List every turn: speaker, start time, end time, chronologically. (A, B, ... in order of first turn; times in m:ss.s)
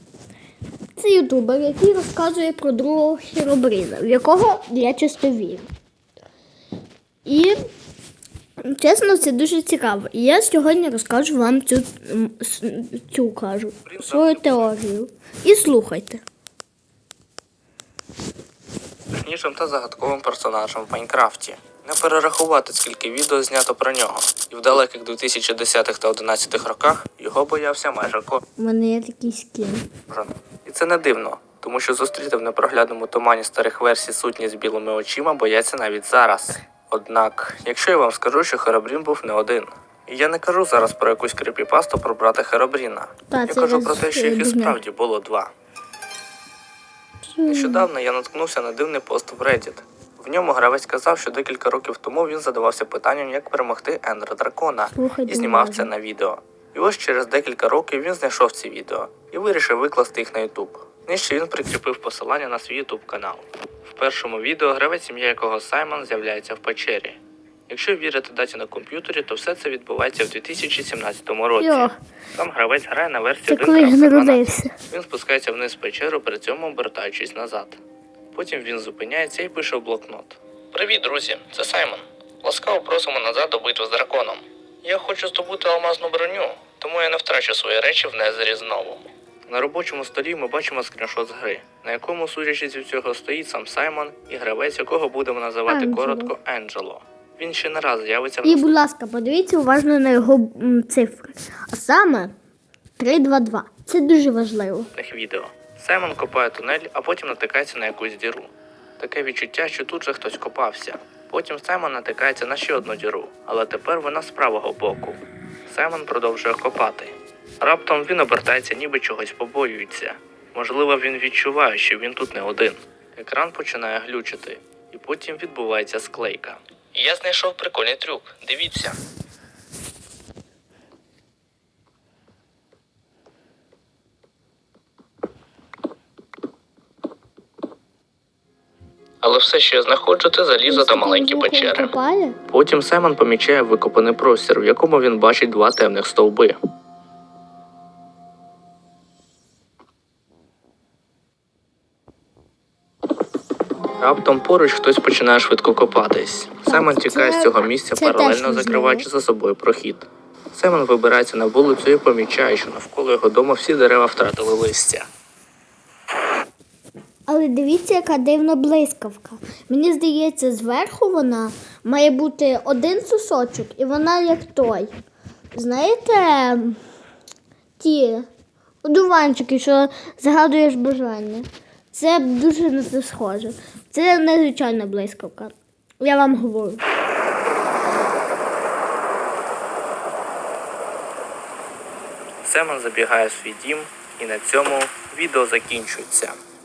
0:01.0-0:05.7 A
0:07.2-0:07.6 A
0:08.6-0:16.2 A
0:13.8-0:14.7 B
0:19.1-0:28.4 B
0:28.6-0:29.8 A
0:30.1-0:45.5 B
0:43.3-0:44.8 A
0:47.3-0:47.9 A
0:47.4-1:17.8 B
0:54.9-0:55.9 A
1:11.6-1:12.0 A
1:13.5-1:14.7 A
1:18.3-1:38.7 B
1:35.7-1:36.3 A
1:38.4-1:42.3 A
1:43.0-1:44.9 A
1:44.9-2:09.0 B
2:19.2-2:21.9 B
2:20.7-2:22.4 A
2:22.5-2:26.6 B
2:34.0-2:45.1 B
2:36.7-2:39.0 A
2:47.3-2:54.9 A
2:55.5-2:56.8 A
2:57.8-2:58.3 A
2:58.8-3:06.8 A
3:12.4-3:16.4 B